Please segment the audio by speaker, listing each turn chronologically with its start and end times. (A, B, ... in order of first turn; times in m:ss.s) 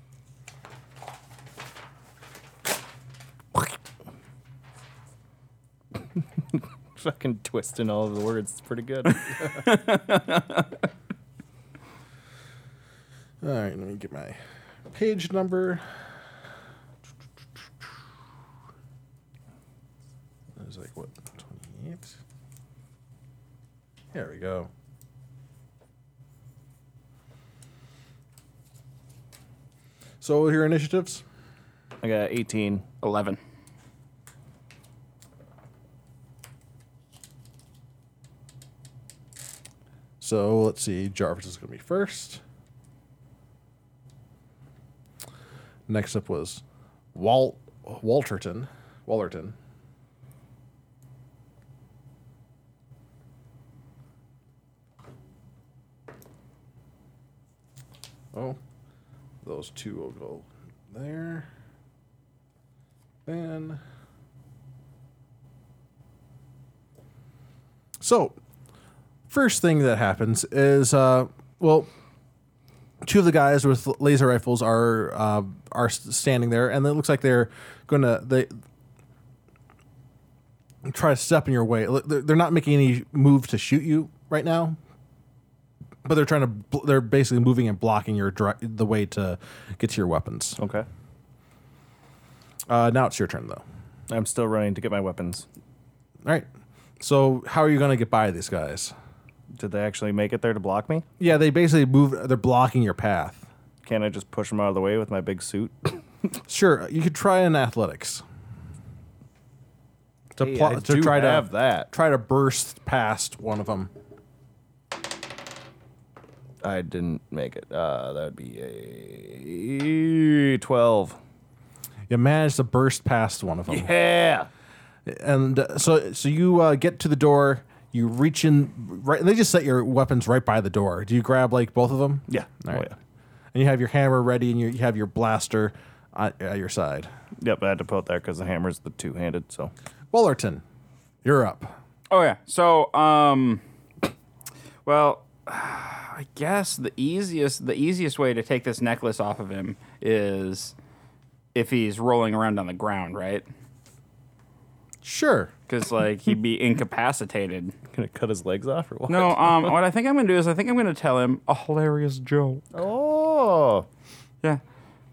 0:06.5-0:09.3 A
0:09.5-0:10.7 B
0:13.4-0:14.4 C
0:14.9-0:15.8 C
0:20.6-0:22.2 C
0:24.1-0:24.7 C
0:30.2-0:31.2 C
0:32.0-0:32.8 A
0:33.0-0:33.4 B
0:40.2-0:42.4 C
0:45.9-0:46.6 C
0:47.1-0:49.6 C
0:58.3-0:58.6 C
0:59.4-1:01.5 C
1:03.3-1:03.8 C
1:08.0-1:08.4 C
1:09.3-1:11.9 C
1:13.0-1:18.5 C
1:20.8-1:24.8 C
1:26.0-1:30.6 C
1:30.6-1:30.9 A
1:32.7-1:33.6 C
1:34.1-1:35.5 A
1:37.0-1:38.9 C
1:39.6-1:41.1 A
1:41.2-1:43.5 C
1:43.8-1:46.3 A
1:46.5-1:48.2 C
1:50.4-1:53.9 C
1:50.4-1:51.9 A
1:56.6-2:01.2 A
2:02.1-2:03.9 C
2:03.7-2:04.5 A
2:05.1-2:12.9 C
2:12.3-2:13.0 A
2:13.5-2:17.1 C
2:17.4-2:19.7 A
2:20.1-2:20.6 C
2:21.2-2:21.8 C
2:22.1-2:23.6 B
2:24.8-2:30.8 B
2:31.6-2:33.5 B
2:35.0-2:35.5 C
2:35.7-2:37.8 B
2:37.9-2:39.8 A
2:39.1-2:42.6 B
2:42.7-2:43.9 A